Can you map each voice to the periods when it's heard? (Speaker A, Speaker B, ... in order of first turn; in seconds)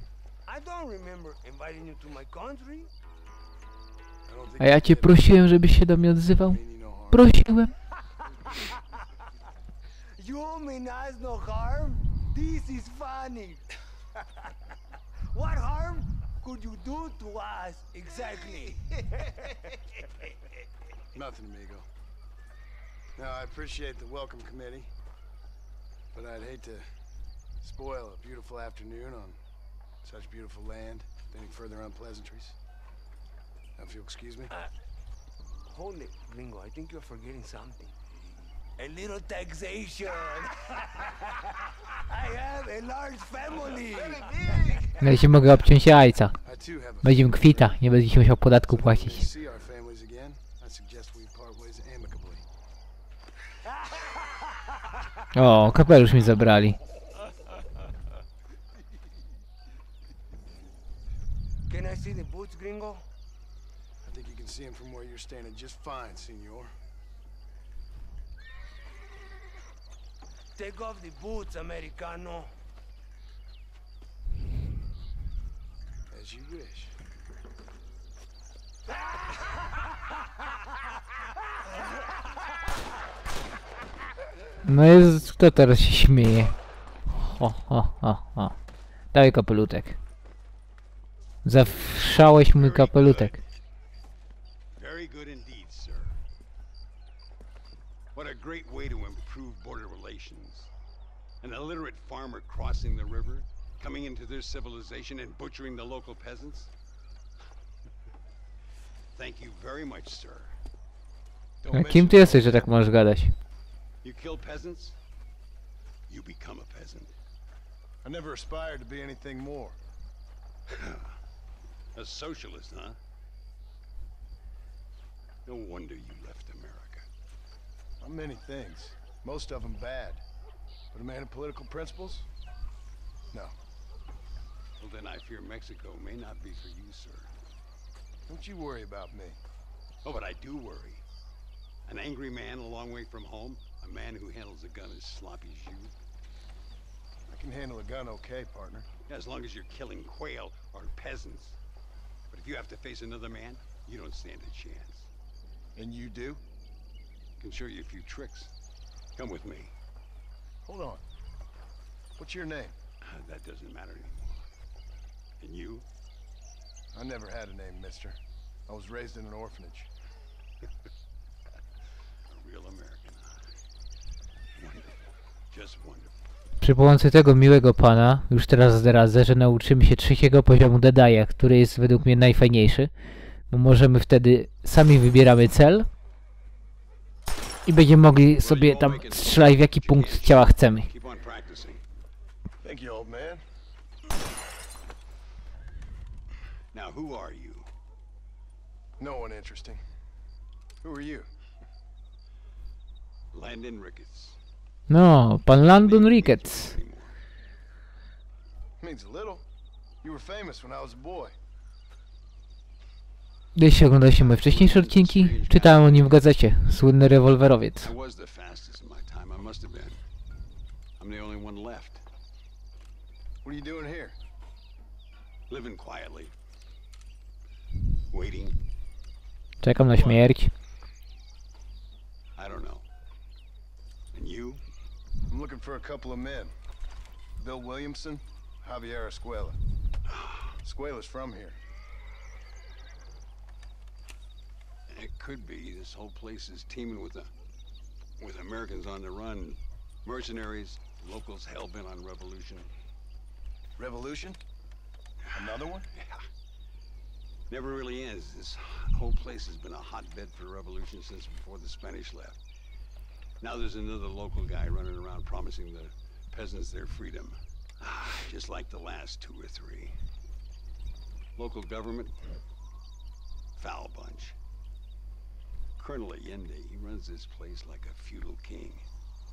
Speaker A: 0.5-2.9, 10.2-13.7, 15.3-19.8, 35.7-37.9, 38.8-45.0, 61.7-63.1, 70.5-72.5
Speaker B: 4.3-5.3, 6.4-7.3, 21.1-21.9, 23.2-24.9, 26.1-26.9, 27.6-29.4, 30.0-32.6, 33.8-34.5, 46.4-47.8, 48.5-52.4, 64.0-66.7, 76.1-77.0, 111.6-112.7, 118.0-119.8, 128.0-130.2, 130.9-132.3, 138.3-139.4, 147.3-148.9, 155.8-156.4, 160.7-161.0, 162.2-162.8, 166.9-169.9, 192.6-193.4, 199.0-199.8, 200.8-201.3, 208.8-209.4, 210.0-211.3, 223.4-224.2, 229.8-230.3, 235.3-236.5, 237.4-239.6, 240.6-241.6, 253.8-254.4, 255.3-255.9
Speaker C: 4.6-6.6, 7.1-7.7, 45.0-46.4, 47.0-49.3, 55.4-56.8, 84.6-86.5, 87.1-88.5, 89.1-90.0, 91.5-93.3, 111.7-113.3, 176.6-182.9, 183.5-185.9, 187.7-190.9, 204.9-206.8, 213.6-217.9, 229.6-230.5
Speaker D: 92.3-93.4, 94.8-96.2, 98.1-100.7, 101.4-106.7, 109.1-110.6, 114.0-115.0, 116.1-117.1, 122.0-123.0, 125.5-127.1, 134.8-137.4, 140.0-141.0, 141.9-145.9, 149.1-151.6, 152.3-155.1, 157.4-158.5, 159.2-159.7, 163.0-164.5, 165.4-165.9, 172.3-173.4, 174.6-175.0, 175.5-176.1, 188.2-191.8, 196.7-197.7, 203.3-204.4, 205.6-207.2, 213.9-216.3, 217.8-220.0, 221.0-222.0, 225.5-226.3, 228.1-228.6, 232.4-232.9, 234.1-234.6, 244.9-247.3, 248.2-252.7, 256.0-256.2, 257.5-262.4, 263.4-270.0, 271.4-272.2, 273.6-274.4, 275.8-278.9